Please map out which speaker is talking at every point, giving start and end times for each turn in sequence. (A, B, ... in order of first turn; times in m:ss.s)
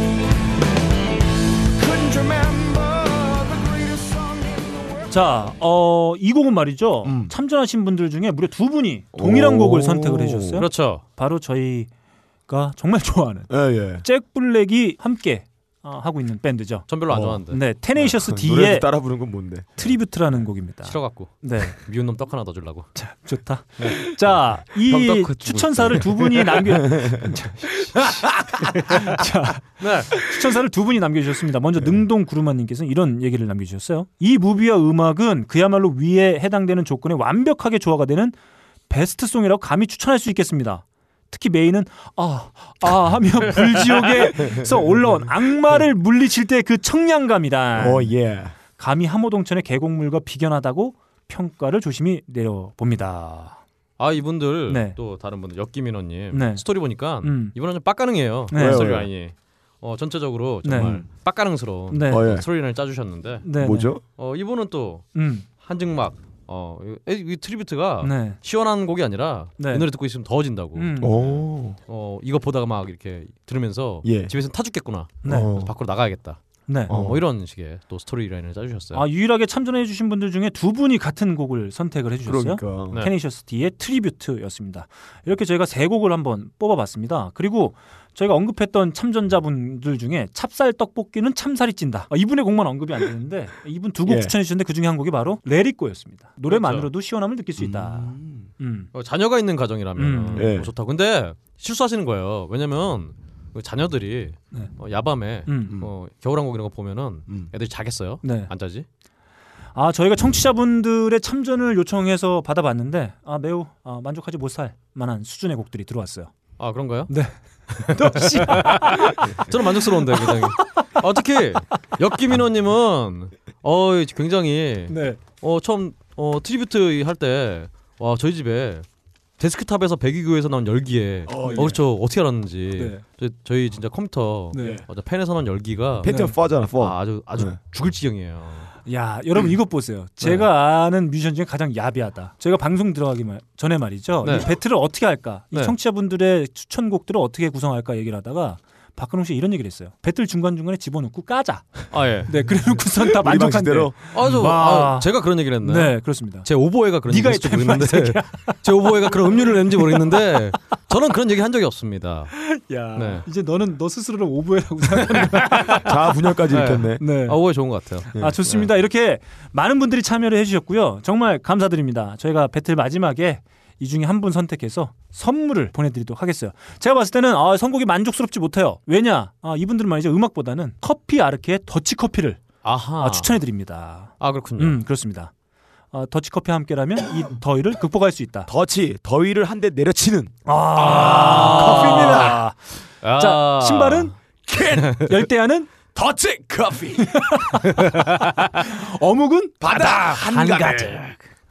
0:01.8-0:05.3 A
0:05.1-0:11.9 B
0:07.0-0:07.3 C
0:09.1-0:10.6 C
0:10.6-0:11.0 D
0:12.5-0:16.9 B
0:13.5-0:14.0 C
0:16.9-0:17.6 D
0:17.1-0:17.4 C
0:17.5-0:18.9 B
0:18.0-0:19.8 C
0:19.8-0:21.8 B
0:20.8-0:22.9 D
0:22.9-0:38.4 B
0:24.8-0:27.3 C
0:25.4-0:26.0 D
0:28.0-0:29.0 C
0:29.8-0:30.2 D
0:38.9-0:48.1 B
0:43.5-0:44.3 D
0:44.4-0:45.3 C
0:47.8-0:48.5 C
0:48.8-0:53.6 B
0:54.0-1:03.5 D
0:54.7-0:55.0 B
0:56.3-0:56.6 B
0:57.2-0:57.5 B
0:58.5-0:58.9 B
0:58.5-0:59.1 C
1:00.6-1:01.0 B
1:01.9-1:02.3 B
1:02.1-1:02.4 C
1:03.4-1:03.9 B
1:03.6-1:04.0 C
1:04.1-1:05.1 D
1:05.1-1:05.4 B
1:05.6-1:11.4 D
1:08.0-1:08.4 B
1:09.6-1:09.8 B
1:10.8-1:11.2 B
1:11.0-1:11.8 C
1:11.9-1:19.0 D
1:14.0-1:14.3 C
1:15.2-1:15.5 B
1:15.2-1:15.7 C
1:16.7-1:16.9 B
1:16.9-1:17.2 C
1:18.9-1:38.9 B
1:22.2-1:23.0 C
1:34.0-1:34.3 C
1:36.5-1:36.9 D
1:37.6-1:38.5 C
1:38.9-1:48.8 D
1:40.0-1:40.5 B
1:40.3-1:40.7 C
1:45.4-1:45.8 B
1:48.2-1:48.5 B
1:49.7-1:56.3 B
1:56.6-1:57.1 D
1:57.1-1:57.3 B
1:57.7-2:08.8 D
1:57.8-2:00.9 B
2:04.9-2:05.2 B
2:09.4-2:16.1 D
2:11.2-2:11.8 C
2:11.4-2:11.7 B
2:12.8-2:13.0 B
2:14.5-2:14.8 B
2:14.6-2:14.8 C
2:16.0-2:17.5 C
2:16.0-2:16.3 B
2:16.8-2:18.7 D
2:18.8-2:36.5 B
2:24.2-2:24.5 D
2:31.9-2:32.3 D
2:32.9-2:34.4 C
2:34.1-2:42.3 D
2:37.0-2:40.2 B
2:42.3-2:45.8 B
2:42.9-2:43.2 D
2:45.0-2:45.9 D
2:45.6-2:47.0 C
2:46.5-2:48.7 D
2:47.0-2:47.4 B
2:48.1-3:02.4 B
3:02.6-3:03.3 D
3:03.0-3:05.3 B
3:04.2-3:04.8 D
3:05.9-3:08.5 B
3:08.4-3:12.4 C
3:10.4-3:12.6 B
3:10.8-3:12.4 D
3:13.0-3:14.1 D
3:13.2-3:14.1 B
3:14.5-3:15.0 C
3:14.7-3:15.1 D
3:15.0-3:15.7 B
3:15.9-3:17.4 C
3:17.0-3:18.1 B
3:17.8-3:18.5 D
3:18.6-3:20.2 B
3:19.6-3:21.2 C
3:19.9-3:21.0 D